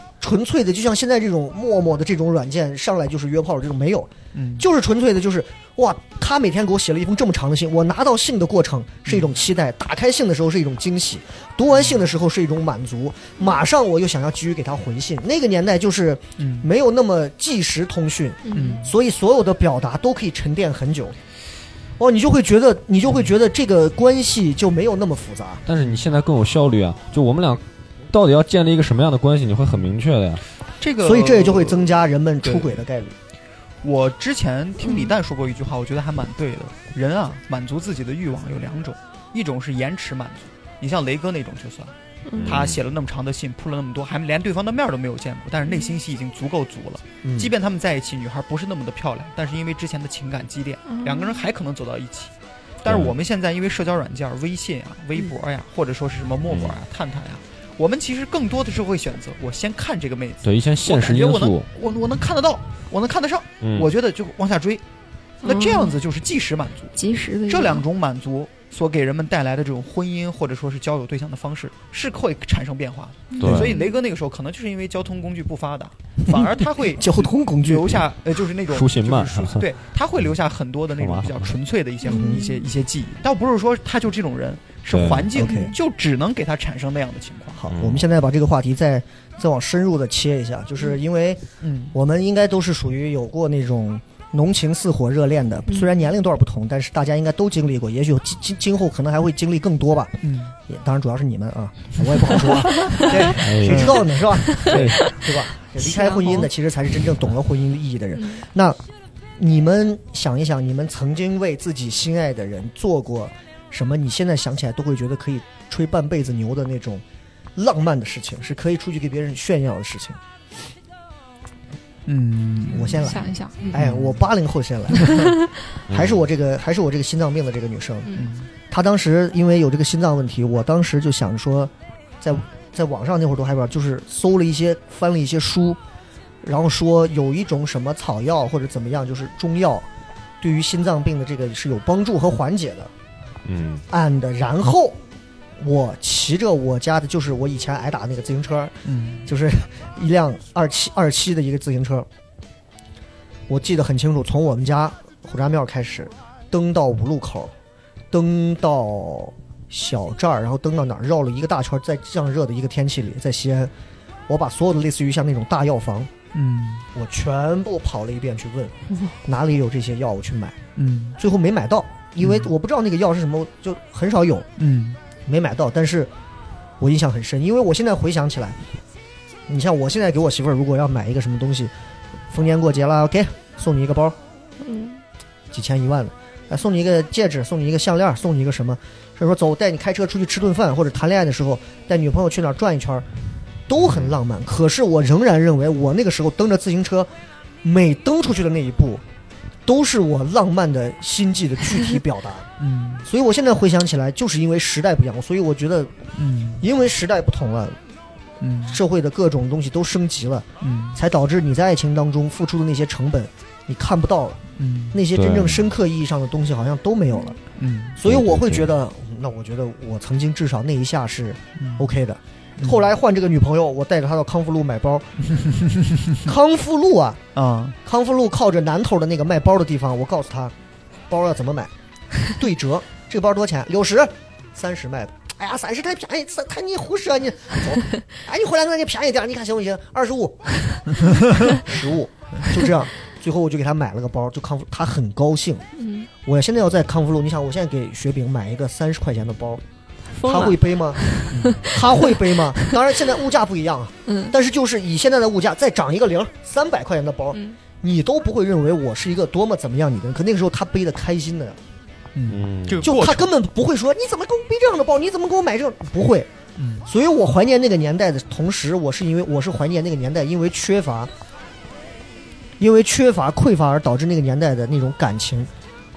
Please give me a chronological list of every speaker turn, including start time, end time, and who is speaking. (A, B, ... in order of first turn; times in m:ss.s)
0:00.2-0:21.2 A
0:04.3-0:04.6 B
0:09.0-0:09.3 B
0:11.7-0:12.1 B
0:16.4-0:16.7 B
0:18.4-0:18.9 C
0:18.5-0:18.9 B
0:22.0-0:25.6 A
0:25.6-0:30.4 D
0:25.8-0:26.0 B
0:30.8-0:32.8 B
0:31.0-0:33.2 A
0:33.8-0:41.9 B
0:34.8-0:35.1 C
0:42.2-0:42.6 C
0:42.4-0:42.8 D
0:42.4-1:04.8 B
0:47.2-0:47.5 A
0:50.9-0:51.4 C
0:52.8-0:53.1 D
0:56.5-0:56.8 D
1:00.4-1:01.7 D
1:03.6-1:03.9 D
1:05.4-1:07.0 B
1:05.4-1:05.9 C
1:07.0-1:07.8 C
1:07.5-1:27.7 B
1:13.3-1:14.0 C
1:13.4-1:13.7 D
1:16.2-1:18.0 A
1:18.7-1:19.6 D
1:21.0-1:21.5 D
1:22.0-1:22.6 C
1:22.1-1:22.4 A
1:24.9-1:25.3 D
1:25.3-1:25.7 A
1:27.6-1:48.8 A
1:27.7-1:28.0 D
1:31.6-1:31.9 B
1:35.7-1:35.9 C
1:40.2-1:40.5 B
1:42.8-1:43.1 C
1:42.8-1:44.0 B
1:43.4-1:44.0 D
1:44.6-1:44.9 B
1:44.7-1:45.0 D
1:45.8-1:46.5 C
1:48.1-1:48.4 C
1:49.4-1:57.0 A
1:57.6-2:00.2 A
2:02.1-2:03.1 B
2:02.7-2:05.4 A
2:03.0-2:03.8 C
2:03.7-2:04.2 B
2:05.0-2:05.3 C
2:05.9-2:08.1 A
2:05.9-2:06.2 D
2:08.0-2:08.3 C
2:08.1-2:08.5 B
2:08.7-2:15.8 A
2:16.4-2:19.9 A
2:20.4-2:22.9 A
2:23.4-2:23.8 D
2:23.9-2:25.0 A
2:25.6-2:32.1 A
2:28.8-2:29.3 B
2:33.5-2:37.5 A
2:38.1-2:43.7 A
2:44.3-2:46.1 A
2:46.3-2:46.8 B
2:46.9-2:50.6 A
2:50.8-2:51.2 B
2:51.2-2:54.5 A
2:52.2-2:52.5 B
2:54.6-2:55.0 B
2:55.2-2:56.1 A
2:56.8-2:58.6 A
2:59.5-3:01.7 A
3:02.3-3:04.2 A
3:04.6-3:05.0 C
3:05.5-3:13.1 A
3:13.7-3:17.1 A
3:17.6-3:19.0 A
3:19.6-3:22.5 A
3:22.6-3:23.0 B
3:23.0-3:26.0 A
3:26.2-3:26.6 B
3:26.6-3:27.8 A
3:28.4-3:28.8 B
3:28.7-3:34.4 A
3:30.6-3:31.0 B
3:34.6-3:35.0 B
3:34.9-3:37.4 A
3:35.1-3:35.6 D
3:37.6-3:38.0 B
3:38.0-3:45.1 A
3:38.0-3:38.7 D
3:41.6-3:41.9 B
3:42.6-3:42.8 B
3:45.3-3:46.2 B
3:46.2-3:47.2 A
3:47.3-3:47.8 B
3:47.8-3:50.5 A
3:51.1-3:51.7 A
3:52.2-4:05.6 A
4:05.8-4:06.1 C
4:06.2-4:09.6 A
4:10.1-4:12.7 C
4:10.2-4:21.6 A
4:14.0-4:14.3 C
4:22.1-4:23.3 B
4:22.3-4:22.9 D
4:22.8-4:26.3 A
4:26.6-4:26.9 B
4:26.8-4:31.1 A
4:32.6-4:35.5 A